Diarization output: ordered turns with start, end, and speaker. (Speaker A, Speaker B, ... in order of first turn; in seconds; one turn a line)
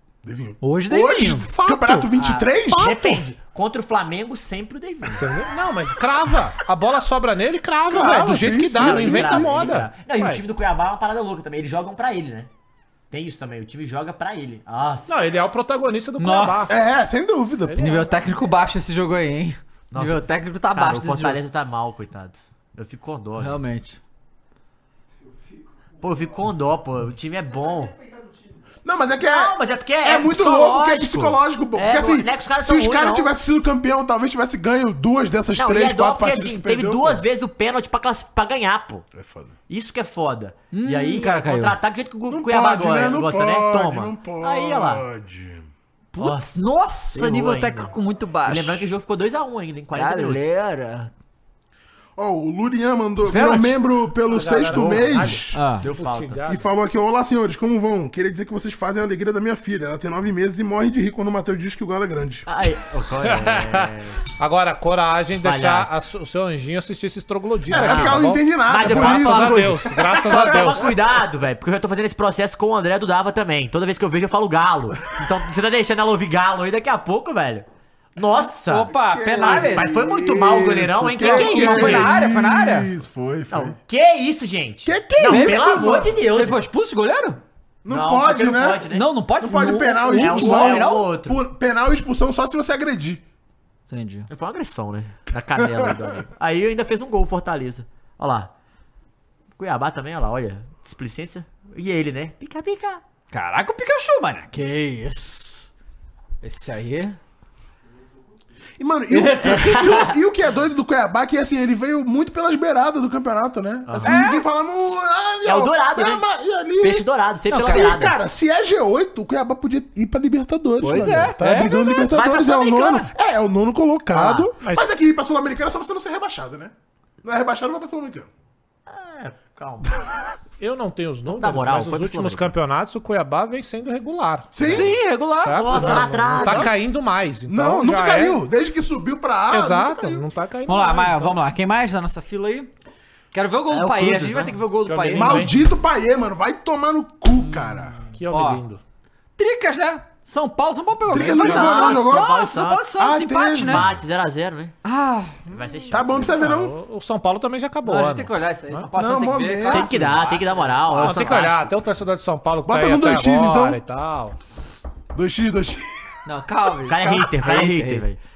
Speaker A: 0.2-3.2
Speaker B: 0.6-1.5
Speaker C: 1.6-2.1
Speaker D: 2.1-5.2
Speaker C: 2.7-3.0
Speaker C: 5.1-10.4
Speaker A: 7.9-9.7
Speaker D: 8.8-12.5
Speaker D: 13.1-15.1
Speaker C: 15.1-16.8
Speaker B: 16.2-16.8
Speaker A: 16.7-18.0
Speaker C: 17.6-18.2
Speaker B: 17.8-21.4
Speaker D: 19.9-23.6
Speaker B: 23.4-24.0
Speaker D: 26.0-28.0
Speaker A: 28.8-37.2
Speaker D: 29.2-33.3
Speaker D: 35.5-39.1
Speaker A: 39.1-39.5
Speaker D: 39.7-45.0
Speaker B: 40.7-41.8
Speaker A: 42.3-45.7
Speaker B: 46.1-48.9
Speaker D: 46.2-46.6
Speaker D: 47.1-47.9
Speaker D: 48.4-50.5
Speaker B: 49.9-51.1
Speaker A: 52.2-55.7
Speaker B: 53.2-53.8
Speaker C: 54.2-56.6
Speaker D: 54.7-56.5
Speaker B: 55.5-55.8
Speaker A: 56.5-62.5
Speaker D: 62.5-64.2
Speaker C: 63.2-70.9
Speaker D: 65.4-66.0
Speaker A: 67.7-71.0
Speaker D: 67.7-82.1
Speaker B: 78.7-80.0
Speaker A: 79.0-83.8
Speaker B: 81.2-82.9
Speaker D: 83.5-86.6
Speaker A: 84.8-86.2
Speaker B: 85.3-85.7
Speaker B: 86.3-87.4
Speaker A: 87.8-88.8
Speaker D: 87.9-89.1
Speaker B: 88.9-91.1
Speaker A: 89.4-93.2
Speaker D: 90.0-91.4
Speaker B: 93.9-94.3
Speaker D: 94.3-98.5
Speaker A: 95.6-95.9
Speaker D: 99.6-103.0
Speaker B: 103.3-104.6
Speaker D: 104.5-105.6
Speaker B: 106.4-107.2
Speaker A: 108.8-128.3
Speaker B: 109.1-109.9
Speaker D: 109.4-110.1
Speaker D: 113.8-114.3
Speaker B: 114.0-114.4
Speaker D: 115.4-116.3
Speaker D: 116.8-118.2
Speaker B: 117.5-118.2
Speaker B: 120.8-122.0
Speaker D: 122.0-123.1
Speaker D: 124.1-124.5
Speaker C: 124.6-124.9
Speaker D: 128.9-129.9
Speaker C: 130.6-134.8
Speaker D: 131.3-132.5
Speaker A: 134.5-134.9
Speaker B: 134.6-136.1
Speaker C: 135.4-138.4
Speaker D: 135.6-136.7
Speaker A: 135.7-136.7
Speaker A: 137.5-140.2
Speaker C: 139.5-141.4
Speaker B: 140.7-142.7
Speaker B: 143.3-145.5
Speaker D: 143.7-144.6
Speaker C: 144.8-145.6
Speaker A: 145.1-148.0
Speaker D: 147.3-148.2
Speaker C: 148.1-148.8
Speaker B: 148.3-148.6
Speaker B: 149.4-153.9
Speaker A: 151.1-152.3
Speaker D: 151.2-152.9
Speaker A: 152.9-153.9
Speaker D: 153.6-154.7
Speaker B: 154.8-155.6
Speaker D: 155.5-156.5
Speaker A: 155.9-156.7
Speaker C: 156.4-158.9
Speaker B: 157.8-160.3
Speaker A: 158.9-160.3
Speaker D: 159.7-161.7
Speaker C: 160.9-164.4
Speaker A: 162.7-163.8
Speaker A: 165.1-165.9
Speaker B: 166.2-168.0
Speaker D: 166.9-168.2